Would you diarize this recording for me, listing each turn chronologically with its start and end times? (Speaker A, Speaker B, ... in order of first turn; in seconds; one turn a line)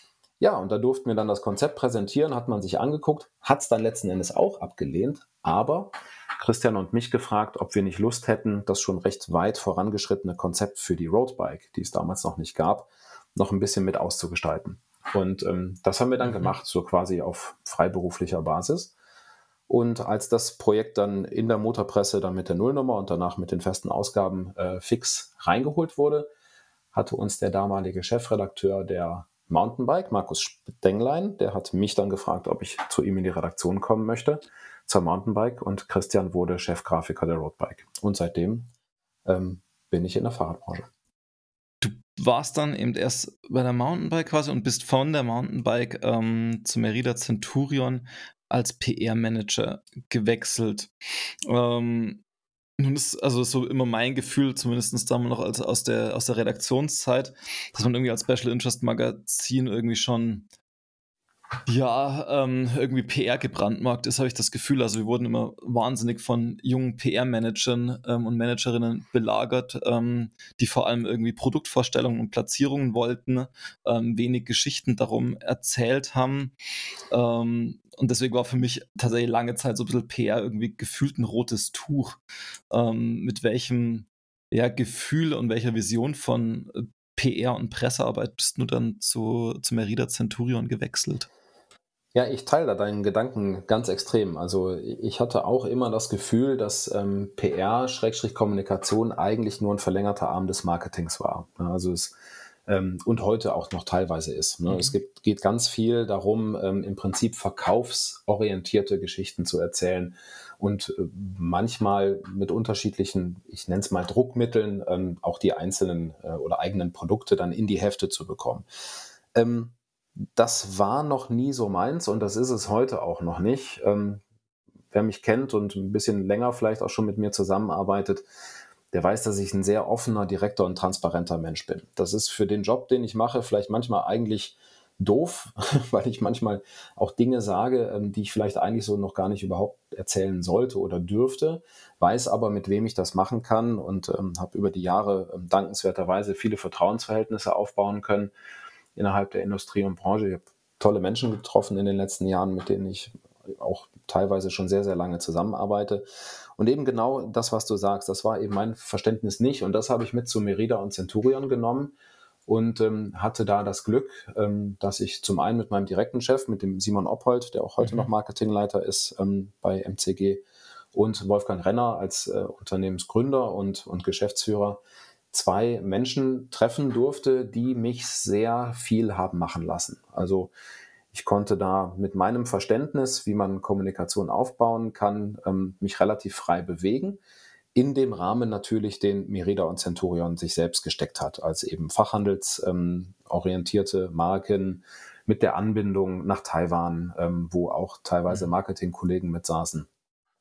Speaker A: 0.4-18.9
Speaker B: 16.2-16.5
Speaker A: 19.7-26.3
Speaker A: 26.9-38.7
Speaker A: 39.2-40.9
Speaker B: 41.8-50.9
Speaker B: 51.5-52.2
Speaker B: 52.8-60.5
Speaker B: 61.7-76.5
Speaker B: 77.1-82.2
Speaker B: 82.7-91.3
Speaker A: 92.2-102.2
Speaker A: 102.7-118.7
Speaker B: 104.7-105.0
Speaker A: 119.3-119.8
Speaker A: 120.4-124.2
Speaker A: 124.9-128.2
Speaker A: 128.9-148.3
Speaker A: 148.9-156.0
Speaker A: 156.6-161.9
Speaker A: 162.5-170.4
Speaker B: 167.8-168.1
Speaker A: 170.9-180.5
Speaker A: 181.1-187.2
Speaker A: 187.8-199.9